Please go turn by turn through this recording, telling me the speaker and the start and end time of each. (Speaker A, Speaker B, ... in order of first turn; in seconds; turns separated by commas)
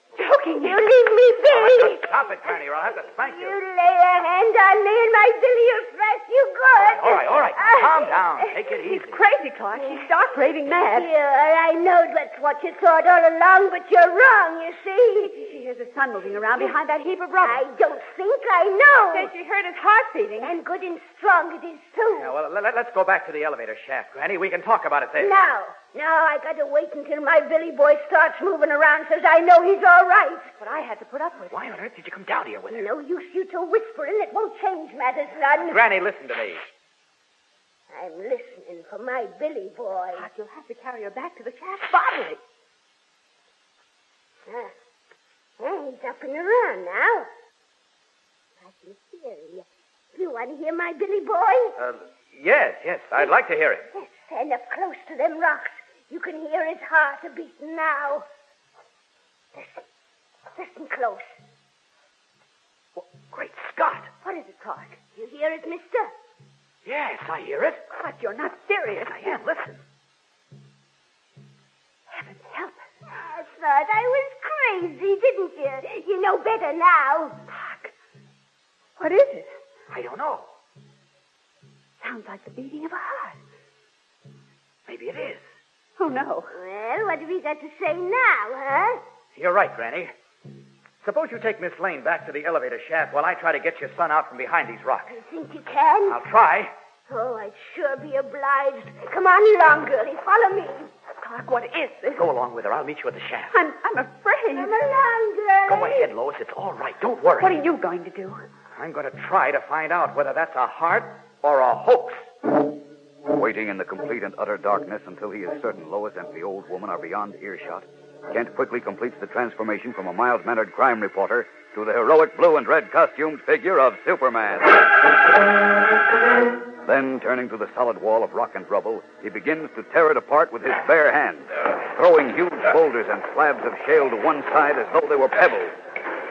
Speaker A: 0.2-0.8, Speaker B: 0.6-2.1, Speaker C: 1.5-3.6, Speaker B: 3.2-8.2, Speaker C: 7.0-9.2, Speaker A: 7.6-11.1, Speaker B: 9.8-10.1, Speaker B: 10.8-15.5, Speaker A: 15.2-17.7, Speaker B: 17.4-19.3, Speaker A: 19.1-20.5, Speaker B: 20.4-22.3, Speaker C: 22.1-25.4, Speaker B: 25.2-30.5, Speaker A: 30.6-31.6, Speaker C: 31.5-32.9, Speaker B: 32.7-35.9, Speaker C: 35.6-36.6, Speaker B: 37.9-40.3, Speaker A: 40.1-42.4, Speaker B: 44.5-44.7, Speaker B: 45.6-47.3, Speaker B: 48.6-51.8, Speaker C: 51.8-53.9, Speaker B: 53.9-58.2, Speaker B: 59.5-59.8, Speaker B: 60.5-61.4, Speaker C: 63.0-64.1, Speaker A: 64.2-65.0, Speaker B: 65.2-66.1, Speaker C: 66.8-67.8, Speaker A: 67.9-69.2, Speaker C: 69.1-69.8, Speaker A: 72.1-72.8, Speaker B: 73.1-77.4, Speaker A: 77.5-77.9, Speaker A: 79.0-79.5, Speaker C: 79.9-80.5, Speaker A: 82.0-83.4, Speaker C: 84.9-85.5, Speaker A: 86.0-86.5, Speaker B: 86.5-89.0, Speaker C: 89.3-90.1, Speaker C: 91.0-95.2, Speaker B: 95.1-96.2, Speaker C: 96.1-96.7, Speaker B: 97.1-100.9, Speaker A: 101.2-102.2, Speaker C: 102.2-103.5, Speaker A: 103.5-104.8, Speaker B: 104.5-106.1, Speaker C: 105.7-107.6, Speaker A: 107.4-108.4, Speaker C: 108.8-112.3, Speaker D: 113.3-125.0, Speaker D: 126.8-135.8